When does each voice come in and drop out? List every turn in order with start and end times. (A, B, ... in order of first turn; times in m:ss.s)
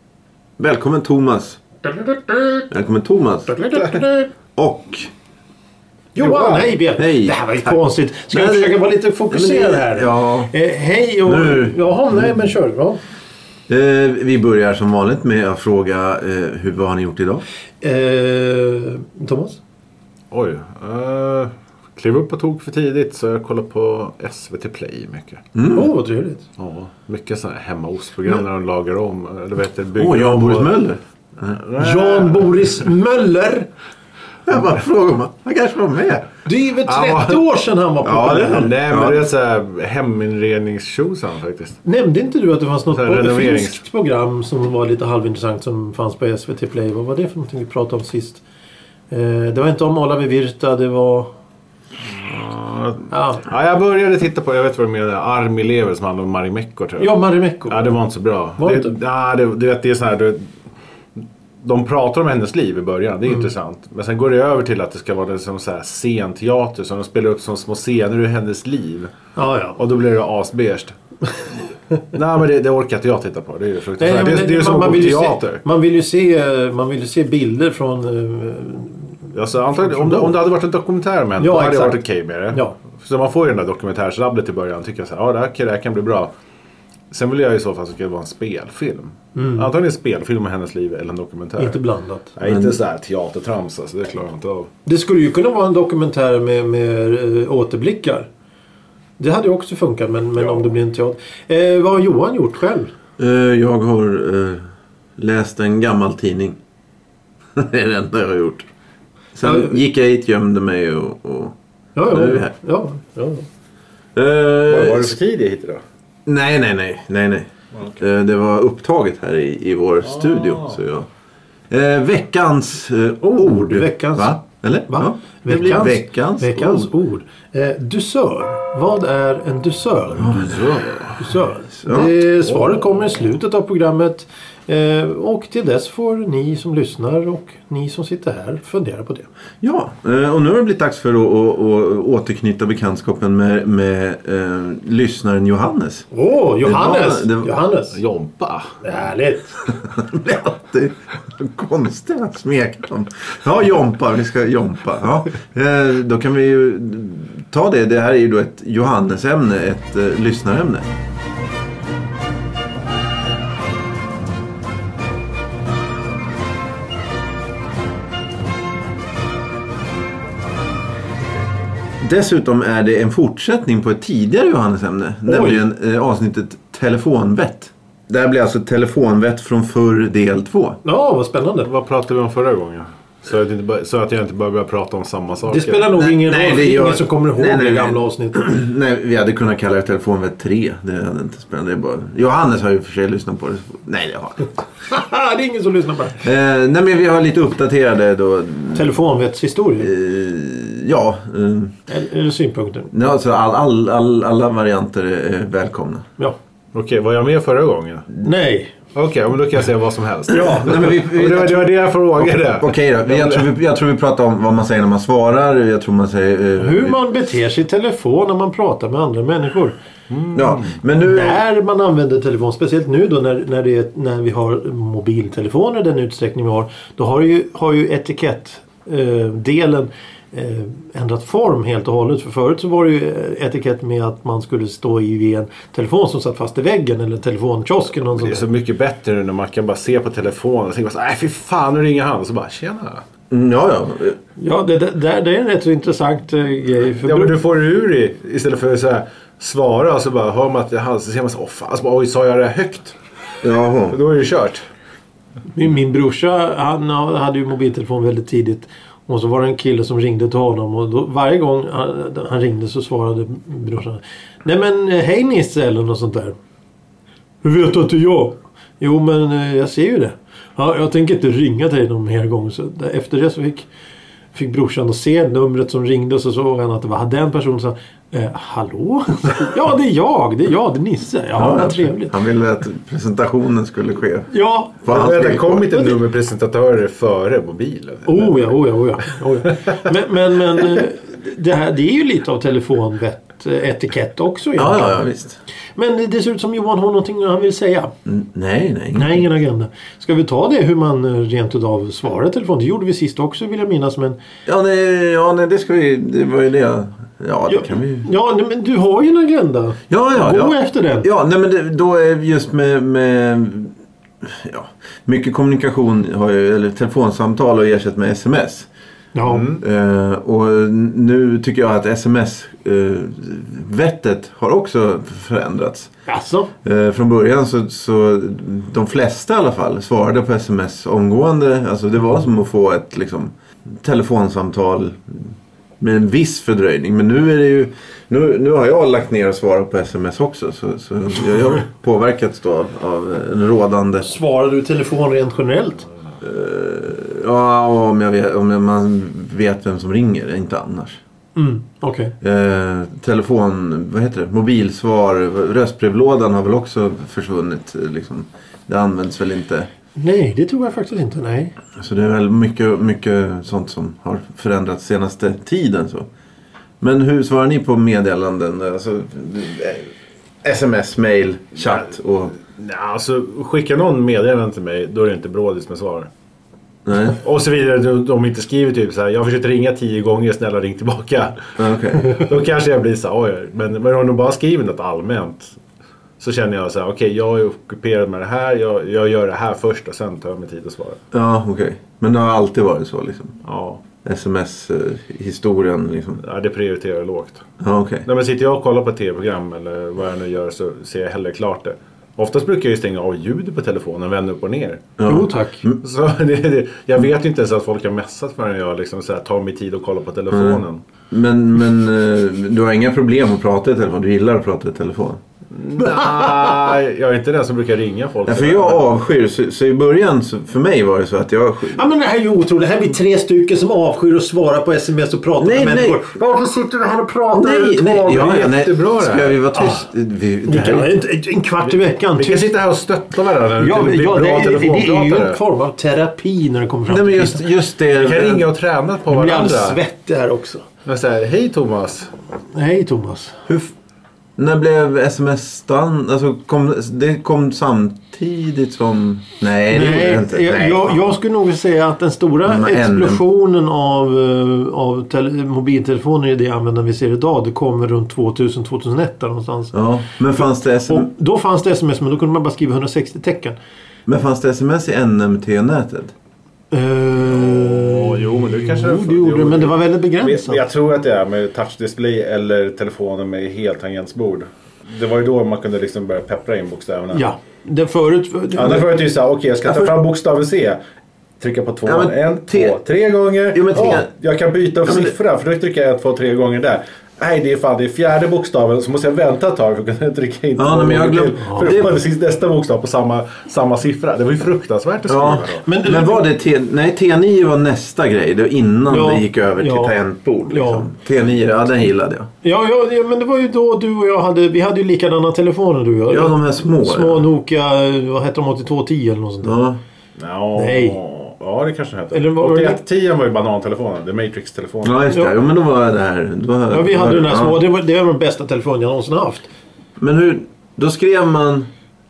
0:00.6-0:01.6 A
0:02.7-0:03.6 A
0:03.5-0:04.3 B
0:04.6-0:05.1 A
0:06.2-0:13.0 B
0:06.2-0:06.7 C
0:07.0-0:07.8 A
0:08.3-0:10.5 A
0:11.2-0:12.4 A
0:13.7-0:17.4 A
0:17.8-0:19.6 B
0:20.3-0:25.4 C
0:25.5-0:25.9 A
0:25.7-0:26.4 B
0:26.6-0:30.7 C
0:30.0-0:31.0 A
0:31.5-0:32.8 C
0:31.8-0:33.7 B
0:34.4-0:36.3 A
0:36.4-0:38.7 B
0:36.9-0:37.4 C
0:38.0-0:39.2 A
0:38.4-0:41.8 C
0:41.8-0:48.4 B
0:42.9-0:43.8 C
0:49.1-0:51.3 B
0:52.0-0:57.1 C
0:53.1-0:53.4 B
0:57.0-0:57.9 B
0:57.7-1:00.5 C
0:58.6-0:58.9 B
1:01.6-1:09.1 C
1:09.4-1:09.8 B
1:09.8-1:10.9 C
1:12.1-1:15.6 C
1:14.0-1:19.0 B
1:19.3-1:26.3 C
1:19.8-1:20.3 B
1:21.4-1:22.0 B
1:27.1-1:31.8 C
1:29.4-1:29.7 B
1:31.6-1:32.3 B
1:32.4-1:34.7 C
1:34.8-1:38.3 B
1:39.2-1:42.9 B
1:40.4-1:40.7 C
1:43.2-1:44.6 A
1:45.2-1:46.6 A
1:47.6-1:48.7 A
1:49.3-1:51.5 A
1:49.4-1:49.8 B
1:52.0-1:53.4 B
1:52.1-1:52.5 A
1:54.1-1:55.2 A
1:54.7-1:55.8 C
1:56.2-2:01.1 A
2:00.0-2:00.8 C
2:01.7-2:06.9 A
2:03.4-2:04.4 B
2:04.9-2:19.3 B
2:10.2-2:10.8 A
2:10.4-2:11.1 C
2:11.8-2:12.1 A
2:12.5-2:12.9 C
2:19.6-2:26.1 A
2:26.1-2:28.0 B
2:26.6-2:27.5 A
2:27.9-2:28.8 C
2:28.8-2:29.6 B
2:29.8-2:40.9 A
2:52.0-3:00.8 A
2:55.2-2:55.6 B
3:00.8-3:01.7 B
3:01.6-3:05.9 C
3:05.5-3:08.4 B
3:06.0-3:14.5 A
3:14.9-3:16.2 B
3:16.2-3:18.9 A
3:18.7-3:19.9 B
3:19.8-3:21.7 A
3:21.9-3:22.9 B
3:22.9-3:26.0 A
3:26.7-3:28.1 C
3:28.2-3:28.7 B
3:28.9-3:33.5 C
3:30.3-3:30.8 B
3:30.5-3:37.0 A
3:36.6-3:39.7 B
3:40.1-3:40.8 C
3:40.3-3:41.4 A
3:41.0-3:58.4 B
3:58.0-4:03.0 C
4:03.3-4:04.2 A
4:04.4-4:07.3 B
4:07.0-4:13.0 C
4:13.4-4:14.0 A
4:13.9-4:14.6 C
4:15.5-4:26.4 B
4:27.4-4:33.7 B
4:34.3-4:42.2 B
4:41.4-4:44.3 A
4:44.3-4:45.1 B
4:44.8-4:45.8 A
4:44.9-4:48.4 C
4:48.0-4:55.0 B
4:54.6-4:55.4 A
4:55.8-4:57.9 B
4:58.0-4:59.2 A
4:58.9-5:04.2 B
5:04.4-5:08.1 A
5:07.5-5:11.1 B
5:09.9-5:18.7 A
5:19.1-5:19.5 B
5:19.2-5:19.6 C
5:19.6-5:25.9 A
5:26.1-5:26.5 B
5:26.6-5:44.1 A
5:44.0-5:45.8 B
5:46.2-5:51.0 A
5:51.4-5:52.1 B
5:52.2-5:59.7 A
6:00.0-6:01.5 B
6:01.8-6:06.1 A
6:06.8-6:09.9 A
6:10.4-6:12.3 A
6:11.7-6:16.1 C
6:16.8-6:17.2 A
6:17.1-6:25.6 C
6:21.6-6:22.2 A
6:26.2-6:31.0 C
6:31.1-6:33.4 A
6:33.4-6:33.8 C
6:34.0-6:36.2 A
6:36.2-6:37.4 C
6:37.6-6:38.0 A
6:38.0-6:44.9 C
6:45.0-6:45.8 A
6:45.0-6:45.6 B
6:45.8-6:50.8 C
6:50.3-6:55.2 A
6:55.5-6:58.9 C
6:55.8-6:56.4 B
6:58.2-7:01.8 A
7:01.7-7:08.3 B
7:05.4-7:06.0 A
7:07.3-7:10.9 A
7:08.1-7:09.4 C
7:09.5-7:09.8 B
7:10.4-7:12.5 B
7:12.2-7:15.4 C
7:13.6-7:17.4 B
7:16.9-7:18.4 A
7:17.9-7:19.8 C
7:19.1-7:20.6 B
7:20.8-7:22.1 C
7:22.5-7:23.4 B
7:23.5-7:23.7 A
7:24.4-7:31.1 A
7:29.7-7:39.7 B
7:32.4-7:33.2 A
7:39.7-7:41.1 A
7:40.9-7:43.6 B
7:44.1-7:46.1 A
7:46.7-7:50.6 B
7:47.3-7:57.2 C
7:57.1-7:58.9 B
7:58.5-8:00.8 C
7:59.6-7:59.9 A
8:01.4-8:15.6 C
8:01.8-8:02.8 A
8:03.5-8:04.1 A
8:04.8-8:05.1 A
8:10.6-8:12.0 A
8:11.4-8:11.7 B
8:15.1-8:22.3 A
8:15.6-8:16.2 B
8:18.9-8:19.9 B
8:20.5-8:20.9 B
8:22.4-8:29.6 B
8:26.1-8:27.3 A
8:29.4-8:29.8 A
8:30.2-8:35.0 C
8:30.5-8:31.0 B
8:32.1-8:32.8 B
8:34.8-8:37.6 A
8:36.7-8:39.5 B
8:40.0-8:41.7 A